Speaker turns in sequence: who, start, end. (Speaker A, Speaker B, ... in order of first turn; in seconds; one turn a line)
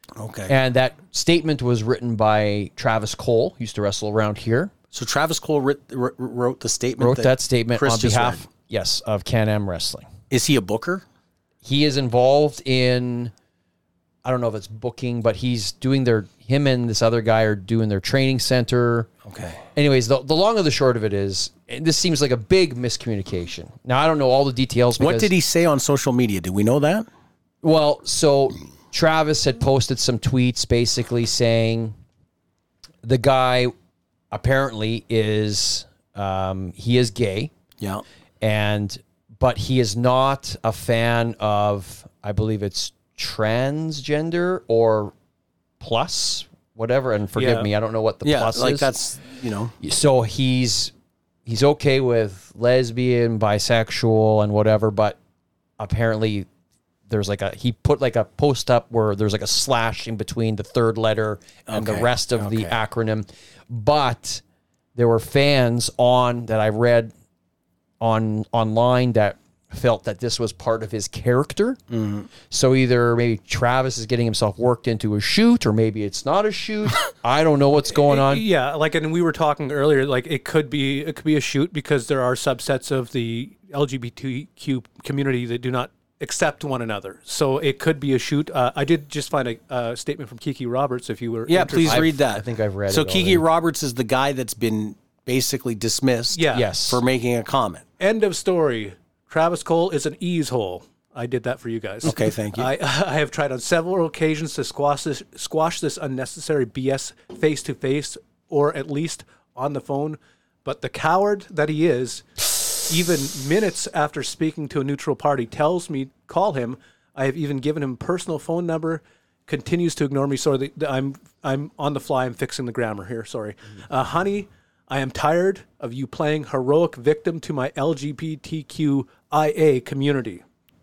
Speaker A: 0.2-0.5
Speaker B: 0.5-4.7
Speaker A: 4.9-8.5
Speaker B: 7.0-10.1
Speaker A: 10.3-11.0
Speaker B: 11.6-13.3
Speaker B: 14.2-19.1
Speaker A: 19.2-19.6
Speaker B: 19.8-25.3
Speaker A: 25.0-27.1
Speaker B: 27.6-31.9
Speaker B: 33.0-33.7
Speaker B: 34.3-37.5
Speaker B: 38.4-45.1
Speaker B: 45.8-48.9
Speaker C: 47.4-47.7
Speaker A: 48.2-49.8
Speaker B: 49.8-50.9
Speaker B: 51.5-55.2
Speaker B: 55.8-56.5
Speaker B: 57.1-64.4
Speaker A: 61.7-62.8
Speaker B: 65.0-67.1
Speaker B: 68.0-71.8
Speaker A: 71.9-72.3
Speaker B: 72.5-78.4
Speaker C: 77.9-92.1
Speaker A: 91.5-97.8
Speaker B: 91.8-93.4
Speaker C: 96.3-96.7
Speaker B: 96.5-97.0
Speaker C: 98.0-130.4
Speaker A: 102.0-102.7